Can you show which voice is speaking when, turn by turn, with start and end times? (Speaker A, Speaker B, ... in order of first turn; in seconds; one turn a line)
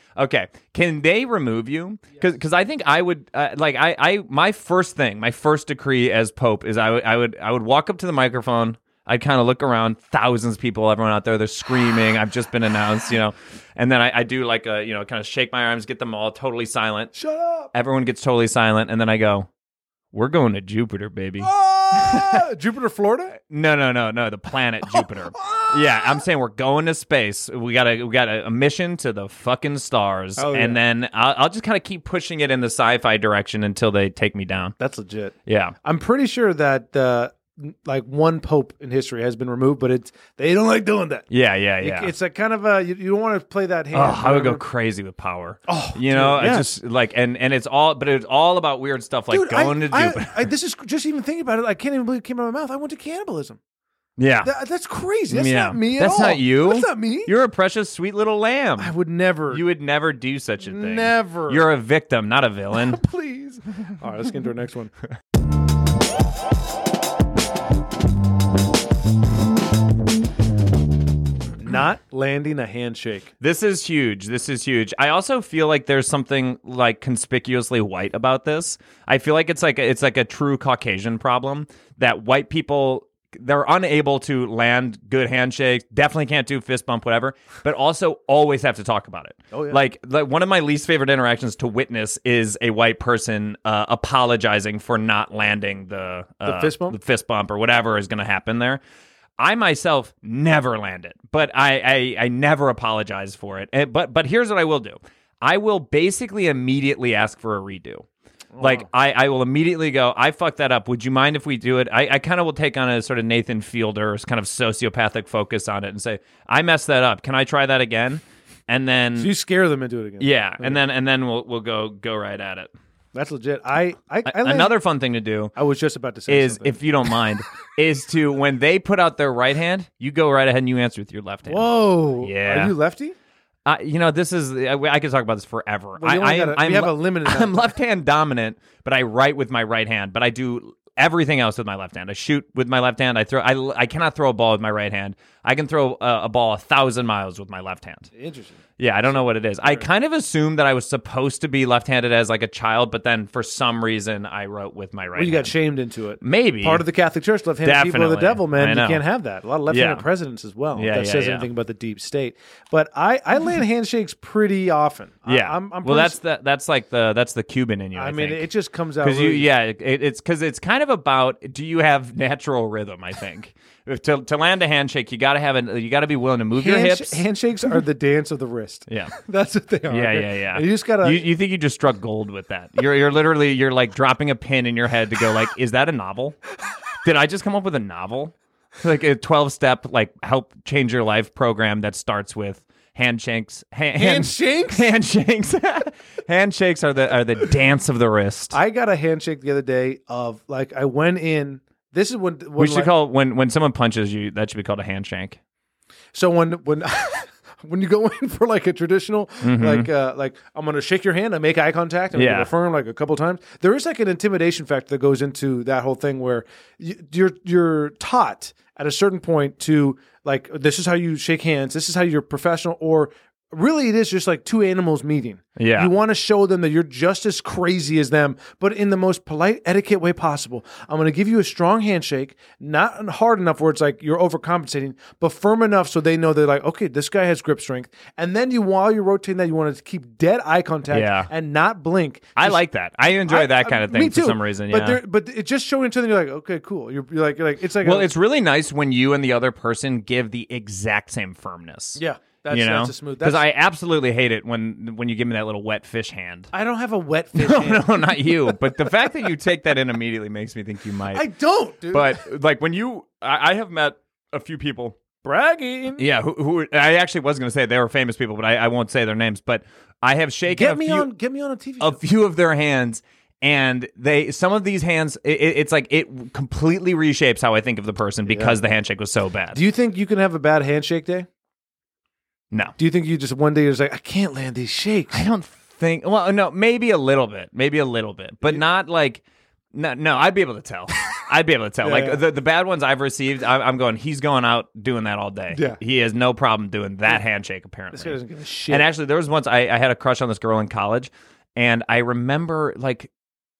Speaker A: 0.1-17.1
Speaker B: 17.1-17.7
Speaker A: 17.7-19.5
Speaker A: 20.1-22.4
Speaker B: 21.4-23.4
Speaker A: 23.4-34.8
Speaker B: 24.9-26.2
Speaker B: 30.4-30.8
Speaker B: 34.8-41.3
Speaker A: 35.5-35.8
Speaker A: 41.3-42.1
Speaker B: 41.8-44.6
Speaker A: 43.9-50.5
Speaker B: 45.7-46.7
Speaker B: 49.3-53.6
Speaker A: 54.2-54.5
Speaker B: 54.4-57.3
Speaker A: 55.3-58.9
Speaker B: 58.8-59.6
Speaker A: 59.5-63.0
Speaker B: 60.6-61.7
Speaker B: 62.7-64.9
Speaker B: 71.6-73.3
Speaker A: 73.4-98.8
Speaker B: 89.5-89.8
Speaker B: 96.4-97.0
Speaker A: 99.4-108.1
Speaker B: 108.5-108.9
Speaker A: 108.6-119.3
Speaker B: 119.2-120.8
Speaker A: 120.2-122.7
Speaker B: 123.1-124.8
Speaker A: 124.2-125.5
Speaker B: 125.5-126.8
Speaker A: 126.3-132.8
Speaker B: 131.5-133.2
Speaker A: 133.7-148.1
Speaker B: 136.0-137.7
Speaker B: 148.2-149.8
Speaker A: 148.8-155.5
Speaker B: 155.2-166.2
Speaker A: 156.2-156.8
Speaker A: 157.6-159.0
Speaker A: 159.7-160.0
Speaker A: 160.8-161.5
Speaker A: 165.2-168.5
Speaker B: 167.9-169.5
Speaker A: 169.0-177.2
Speaker B: 176.6-181.2
Speaker A: 178.9-179.1
Speaker A: 179.9-186.4
Speaker A: 187.0-198.6
Speaker B: 193.9-194.9
Speaker B: 198.5-202.9
Speaker A: 202.6-205.4
Speaker B: 206.1-242.6
Speaker A: 209.4-209.9
Speaker A: 212.1-212.5
Speaker A: 225.6-225.9
Speaker A: 240.9-241.3
Speaker A: 242.4-245.0
Speaker B: 243.2-248.1
Speaker A: 247.8-256.5
Speaker B: 252.0-253.5
Speaker B: 256.5-258.9
Speaker A: 257.4-261.2
Speaker B: 261.1-262.2
Speaker A: 261.9-265.0
Speaker B: 265.2-266.0
Speaker A: 266.0-271.1
Speaker B: 270.5-272.0
Speaker A: 271.8-279.6
Speaker B: 278.3-278.6
Speaker B: 279.5-281.3
Speaker A: 282.5-282.8
Speaker B: 282.8-285.2
Speaker A: 285.1-289.2
Speaker A: 289.7-303.1
Speaker B: 291.8-292.2
Speaker B: 295.5-295.8
Speaker B: 297.9-298.9